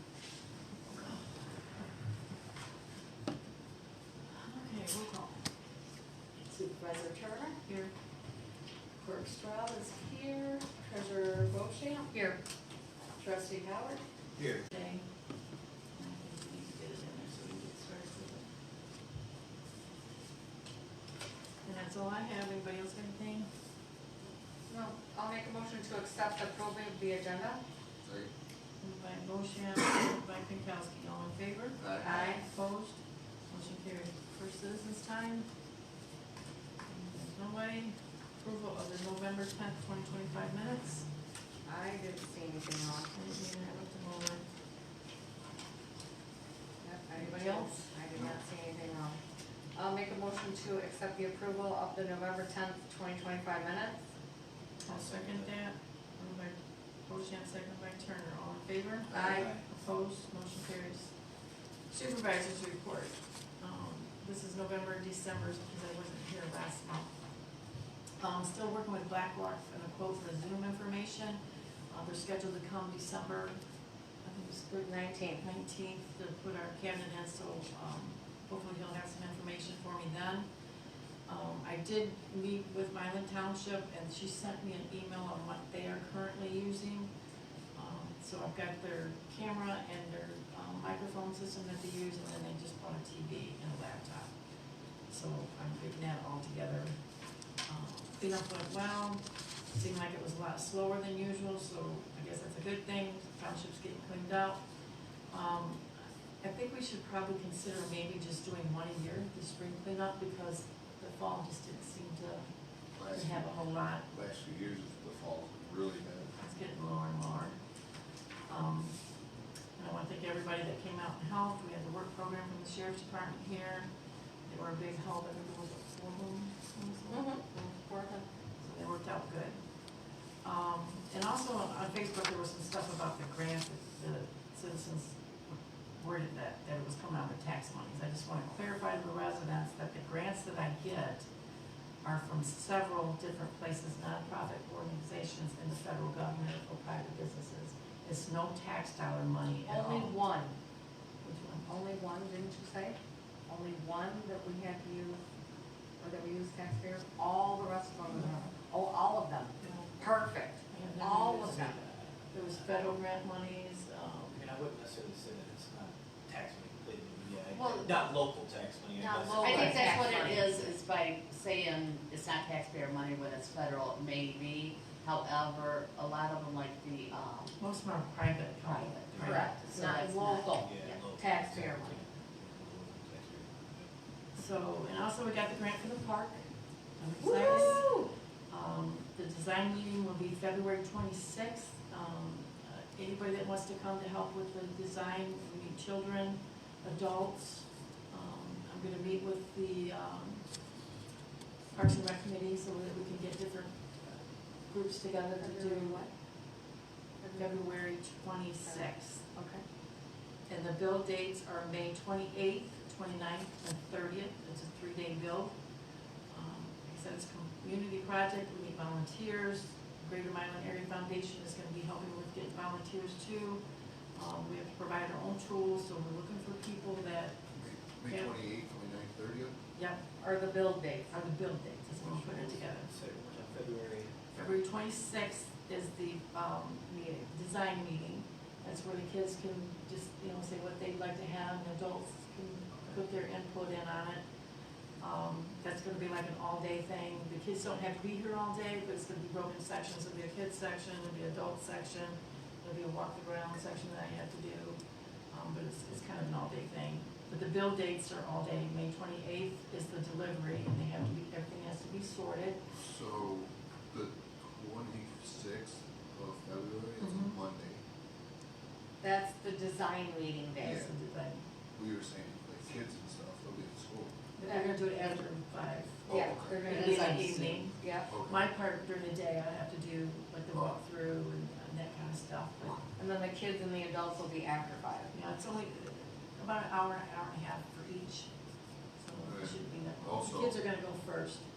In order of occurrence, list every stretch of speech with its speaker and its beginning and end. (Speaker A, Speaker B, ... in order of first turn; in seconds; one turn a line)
Speaker A: 4.3-5.4
Speaker B: 6.5-7.6
Speaker A: 7.7-7.9
Speaker B: 9.0-12.4
Speaker B: 13.2-14.0
Speaker C: 14.4-14.6
Speaker A: 14.7-15.1
Speaker A: 15.9-18.4
Speaker A: 21.6-23.5
Speaker B: 24.7-27.6
Speaker D: 28.1-28.3
Speaker A: 28.8-35.5
Speaker D: 31.8-32.1
Speaker B: 32.0-32.4
Speaker A: 36.9-41.1
Speaker B: 41.7-43.1
Speaker A: 43.1-44.4
Speaker B: 46.8-49.2
Speaker A: 47.2-47.9
Speaker B: 49.8-54.0
Speaker A: 54.9-61.1
Speaker B: 59.1-59.6
Speaker C: 59.3-59.6
Speaker A: 61.9-67.1
Speaker A: 68.2-73.6
Speaker A: 74.2-74.8
Speaker B: 74.7-75.4
Speaker A: 75.4-80.5
Speaker A: 81.3-87.1
Speaker A: 87.8-94.3
Speaker A: 95.1-97.0
Speaker A: 97.7-99.2
Speaker A: 99.7-104.6
Speaker A: 105.3-105.9
Speaker A: 106.4-112.5
Speaker D: 113.0-113.5
Speaker A: 113.1-114.0
Speaker D: 114.1-116.3
Speaker A: 116.4-117.6
Speaker A: 118.5-119.0
Speaker A: 119.8-123.9
Speaker A: 124.5-127.3
Speaker B: 127.1-128.2
Speaker A: 128.6-129.6
Speaker A: 130.4-141.3
Speaker A: 142.0-150.2
Speaker B: 149.7-150.6
Speaker A: 151.2-151.7
Speaker B: 151.7-155.2
Speaker B: 156.0-161.8
Speaker A: 158.2-158.4
Speaker A: 159.6-159.9
Speaker A: 160.7-164.4
Speaker C: 164.3-170.1
Speaker E: 167.5-168.1
Speaker B: 169.0-170.6
Speaker E: 169.4-177.6
Speaker A: 177.6-179.5
Speaker E: 178.6-180.6
Speaker C: 179.1-179.5
Speaker B: 179.2-182.0
Speaker C: 180.6-183.9
Speaker A: 184.3-186.4
Speaker A: 187.0-187.8
Speaker B: 187.2-188.1
Speaker E: 187.4-187.8
Speaker A: 188.5-200.4
Speaker A: 201.7-206.1
Speaker B: 205.4-206.1
Speaker B: 207.2-207.6
Speaker A: 207.4-209.2
Speaker B: 208.7-209.6
Speaker A: 210.5-215.5
Speaker A: 216.3-223.6
Speaker A: 224.2-227.4
Speaker D: 227.6-229.6
Speaker A: 228.1-228.4
Speaker A: 229.8-230.0
Speaker B: 230.2-231.1
Speaker A: 231.1-232.9
Speaker C: 232.2-234.2
Speaker A: 234.3-244.2
Speaker B: 236.9-237.3
Speaker A: 245.0-254.8
Speaker A: 255.3-262.6
Speaker D: 262.7-267.8
Speaker A: 267.0-267.4
Speaker B: 269.0-270.9
Speaker D: 270.6-270.9
Speaker A: 270.6-271.4
Speaker D: 271.8-274.1
Speaker A: 274.4-276.0
Speaker B: 274.4-275.2
Speaker D: 276.1-276.9
Speaker B: 276.1-278.1
Speaker A: 276.6-282.8
Speaker D: 278.1-278.5
Speaker B: 283.0-285.1
Speaker A: 285.1-288.3
Speaker A: 289.0-291.4
Speaker D: 289.2-290.6